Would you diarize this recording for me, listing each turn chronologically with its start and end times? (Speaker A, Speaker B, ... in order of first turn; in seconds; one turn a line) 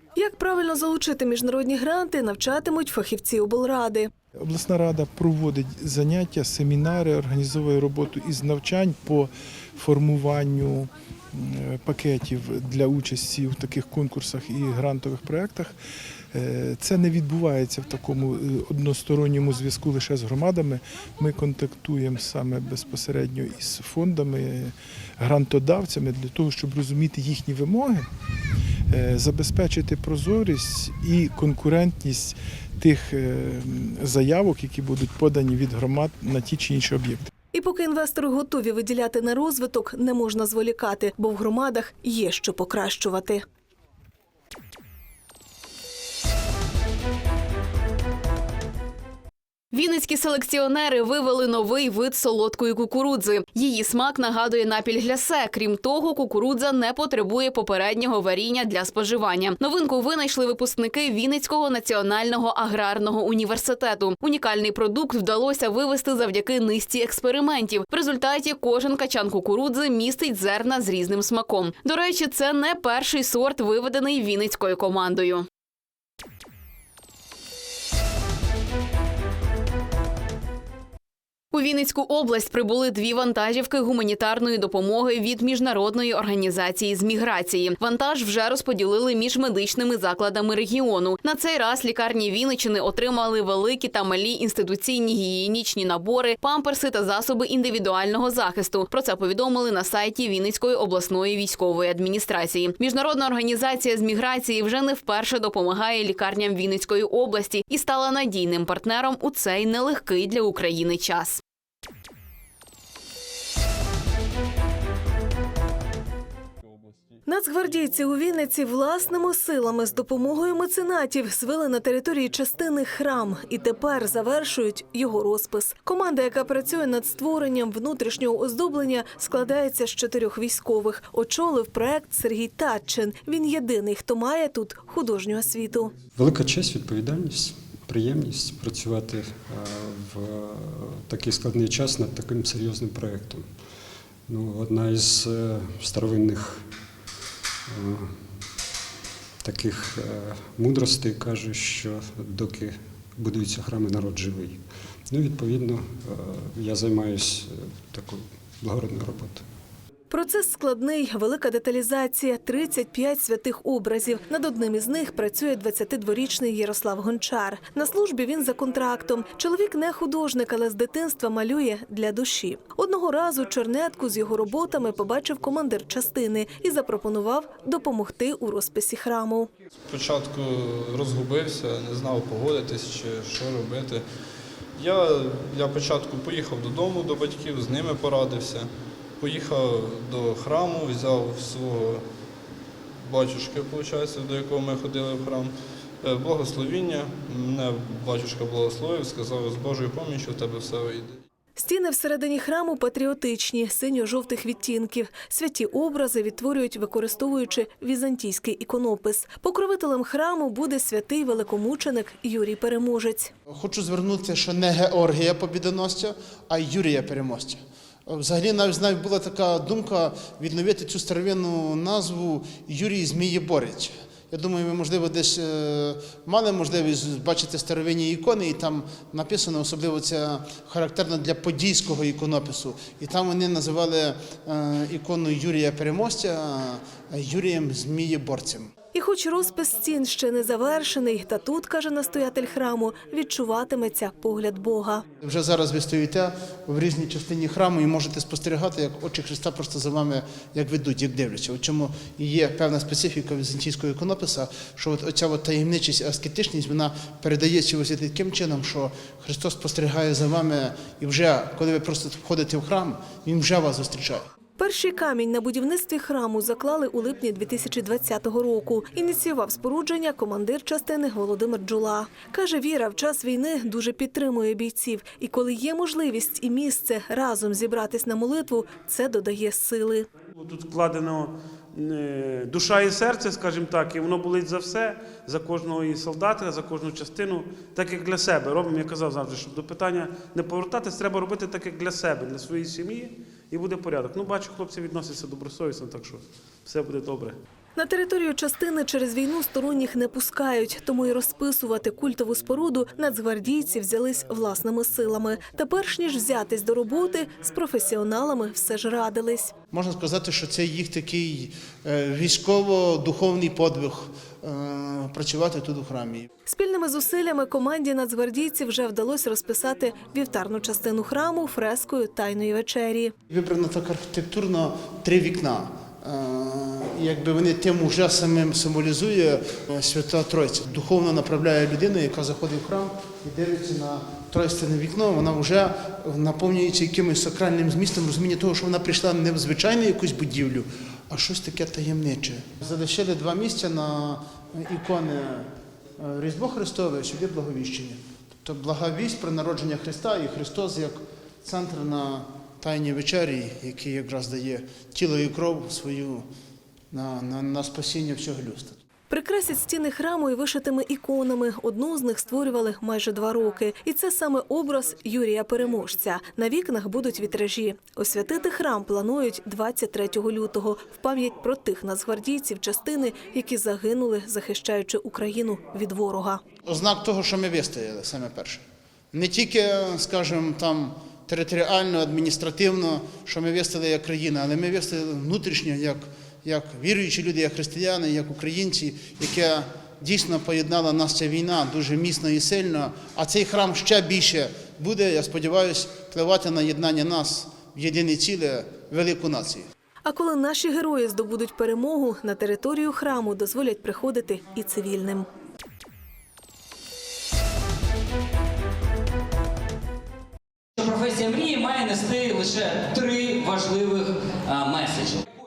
Speaker A: 0.2-4.1
Speaker B: 4.4-15.8
Speaker B: 16.3-28.1
Speaker B: 28.9-37.3
Speaker A: 37.5-43.4
Speaker C: 49.7-75.5
Speaker C: 81.5-111.4
Speaker A: 117.3-135.9
Speaker D: 136.2-143.5
Speaker D: 144.3-146.7
Speaker D: 147.7-148.3
Speaker D: 149.4-154.6
Speaker D: 155.1-159.4
Speaker A: 160.1-179.5
Speaker E: 179.9-184.1
Speaker E: 184.8-192.0
Speaker E: 193.0-201.2
Speaker A: 201.6-213.3
Speaker F: 213.5-238.7
Speaker A: 238.9-245.1
Speaker F: 245.2-264.3
Speaker A: 264.6-280.1
Speaker G: 280.4-297.4
Speaker A: 297.8-309.5
Speaker F: 309.7-316.3
Speaker A: 316.5-323.1
Speaker F: 323.3-356.3
Speaker F: 356.9-358.8
Speaker A: 359.1-376.4
Speaker F: 376.6-399.7
Speaker A: 400.0-405.3
Speaker H: 410.8-415.2